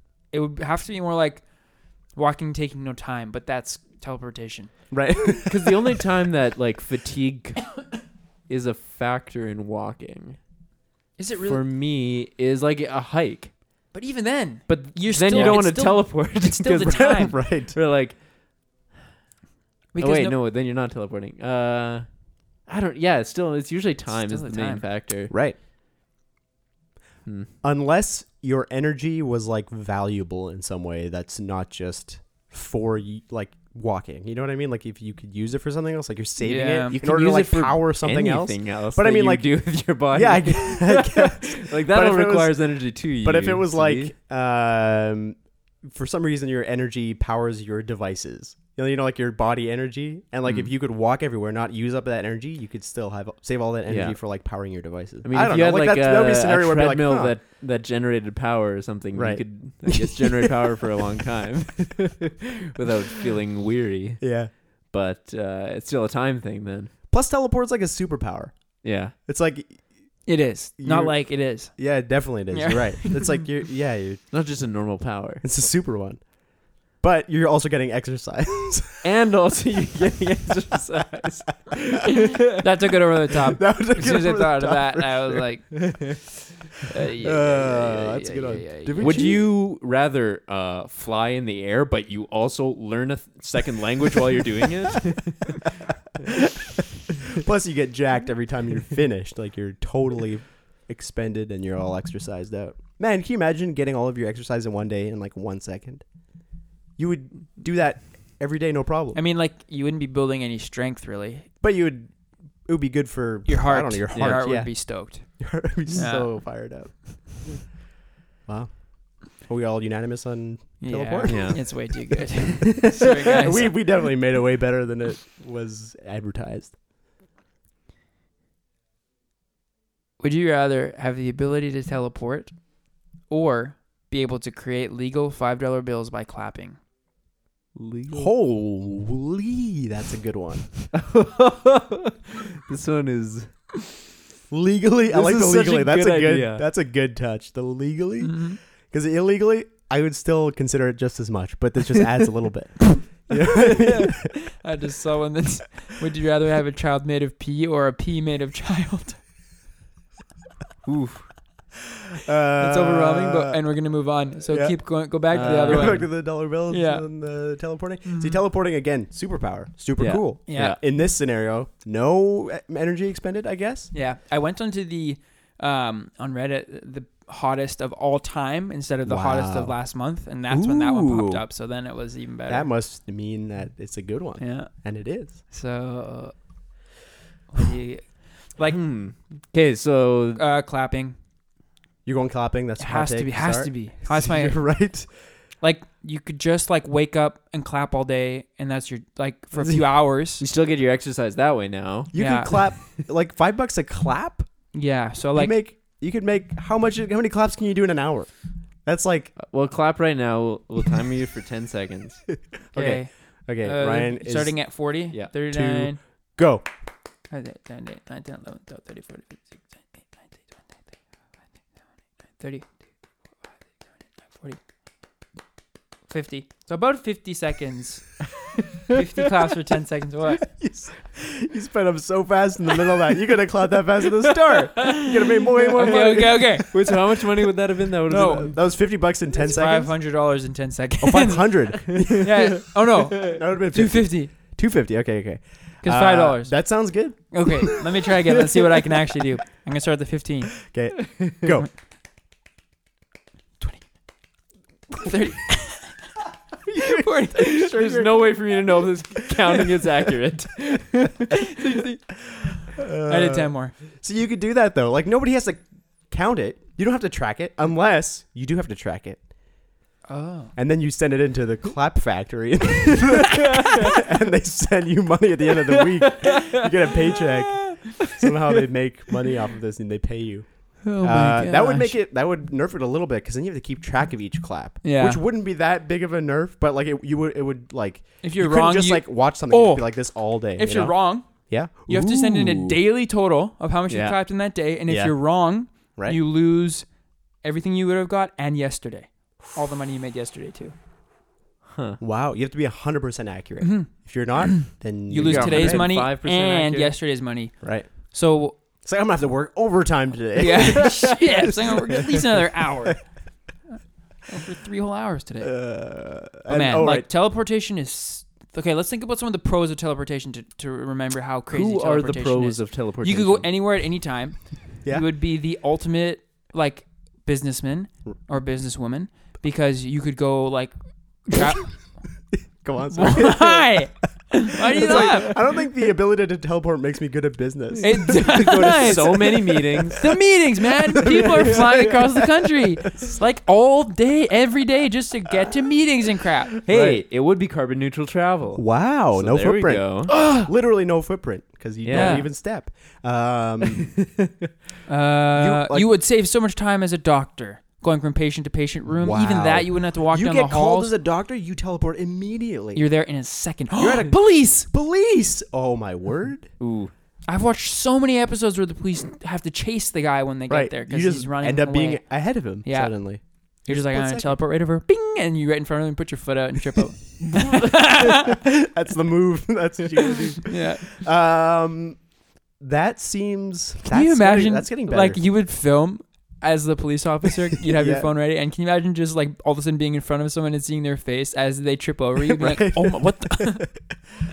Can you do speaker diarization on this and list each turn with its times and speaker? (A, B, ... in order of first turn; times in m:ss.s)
0:00.3-0:01.4 A
0:02.1-0:04.7 A
0:04.9-0:06.0 B
0:05.4-0:07.8 C
0:08.5-0:10.4 C
0:11.2-0:11.6 A
0:11.4-0:13.5 C
0:13.9-0:17.3 A
0:14.7-0:18.1 C
0:15.3-0:15.6 B
0:16.8-0:17.8 B
0:19.9-0:20.4 A
0:20.0-0:22.0 C
0:22.7-0:25.3 C
0:24.1-0:24.8 A
0:25.3-0:25.6 B
0:27.6-0:42.6 B
0:36.4-0:37.0 A
0:36.9-0:44.1 C
0:43.2-0:57.4 B
0:50.4-0:50.7 C
0:53.9-0:54.2 C
0:55.2-1:04.3 C
0:59.1-1:00.9 B
1:04.2-1:04.5 B
1:04.9-1:06.9 C
1:07.1-1:08.5 B
1:08.8-1:09.1 C
1:09.2-1:09.8 B
1:10.2-1:11.7 A
1:10.8-1:14.2 B
1:12.5-1:13.3 A
1:14.3-1:15.4 C
1:15.4-1:16.3 B
1:17.0-1:19.0 B
1:19.0-1:22.4 C
1:22.4-1:26.0 A
1:23.6-1:25.4 B
1:25.7-1:26.2 C
1:26.9-1:29.4 A
1:27.2-1:29.4 B
1:29.0-1:36.3 C
1:37.3-1:46.0 B
1:47.0-1:49.2 B
1:49.1-1:51.5 A
1:51.6-1:52.1 B
1:52.6-1:57.6 B
1:53.5-1:56.3 A
1:54.1-1:54.4 C
1:58.4-2:02.0 B
2:00.8-2:03.8 A
2:01.3-2:01.9 C
2:02.6-2:06.7 B
2:10.2-2:12.5 A
2:13.3-2:16.8 A
2:17.8-2:18.3 C
2:18.1-2:20.7 B
2:20.9-2:23.5 C
2:24.5-2:34.3 B
2:25.1-2:26.6 C
2:28.2-2:28.6 A
2:33.5-2:39.2 A
2:40.8-2:41.3 C
2:42.2-2:43.6 B
2:42.6-2:47.0 A
2:44.5-2:44.8 B
2:45.3-2:53.9 B
2:45.3-2:46.0 C
2:48.0-2:48.4 A
2:50.0-2:50.8 C
2:50.4-2:50.8 A
2:53.9-3:02.7 A
2:59.0-2:59.8 B
3:00.5-3:01.4 B
3:02.5-3:05.4 B
3:04.4-3:04.7 A
3:05.3-3:06.3 A
3:07.5-3:08.8 A
3:08.7-3:10.4 C
3:10.4-3:11.2 A
3:12.0-3:15.1 B
3:12.8-3:14.6 A
3:15.6-3:20.4 A
3:19.5-3:19.8 B
3:20.4-3:22.7 C
3:22.1-3:24.5 B
3:22.1-3:22.5 A
3:24.7-3:25.6 A
3:25.3-3:28.3 B
3:28.8-3:29.3 B
3:29.4-3:32.2 C
3:32.7-3:34.6 B
3:32.7-3:33.1 A
3:33.6-3:36.0 A
3:35.5-3:36.6 B
3:37.3-3:40.6 A
3:42.4-3:42.7 A
3:46.1-3:48.2 A
3:48.9-3:50.4 A
3:50.5-3:56.6 B
3:54.8-3:56.7 A
3:55.7-3:58.5 C
3:58.1-3:58.5 A
3:58.1-3:59.9 B
3:59.4-4:04.3 A
4:01.0-4:02.6 B
4:01.9-4:02.4 C
4:03.2-4:07.8 B
4:05.8-4:06.6 A
4:07.3-4:10.6 A
4:10.6-4:11.7 B
4:11.1-4:11.5 C
4:14.9-4:16.1 A
4:16.7-4:17.1 B
4:16.7-4:18.3 A
4:17.4-4:21.4 C
4:21.5-4:22.0 A
4:22.7-4:29.2 B
4:23.0-4:23.7 A
4:30.1-4:30.5 A
4:30.6-4:52.8 B
4:40.8-4:42.0 A
4:44.8-4:45.2 A
4:48.2-4:49.9 A
4:50.5-4:51.3 A
4:51.8-4:56.8 A
4:53.9-4:54.2 C
4:54.9-4:55.1 B
4:57.4-5:00.7 A
5:01.7-5:02.0 C
5:02.0-5:05.9 B
5:03.6-5:08.6 A
5:05.2-5:06.9 C
5:07.6-5:07.9 B
5:08.8-5:12.9 B
5:10.4-5:13.0 A
5:13.7-5:15.6 A
5:15.4-5:17.1 B
5:16.5-5:31.8 A
5:21.5-5:23.5 C
5:32.3-5:33.8 B
5:32.9-5:35.4 A
5:34.7-5:39.2 B
5:37.8-5:46.5 A
5:38.0-5:40.1 C
5:41.0-5:42.0 C
5:41.1-5:42.1 B
5:46.6-5:50.1 C
5:46.7-5:47.0 B
5:48.5-5:53.9 B
5:50.1-5:50.5 A
5:51.8-5:52.2 C
5:51.9-5:52.3 A
5:53.6-5:54.3 C
5:54.9-6:00.9 A
5:55.3-5:55.9 B
5:59.0-6:02.8 B
6:02.7-6:04.7 A
6:03.7-6:06.5 B
6:06.6-6:06.9 C
6:07.3-6:18.4 A
6:10.5-6:14.4 B
6:17.3-6:22.0 B
6:20.4-6:20.9 A
6:22.6-6:25.2 B
6:23.9-6:33.7 A
6:27.6-6:28.1 B
6:32.2-6:33.9 B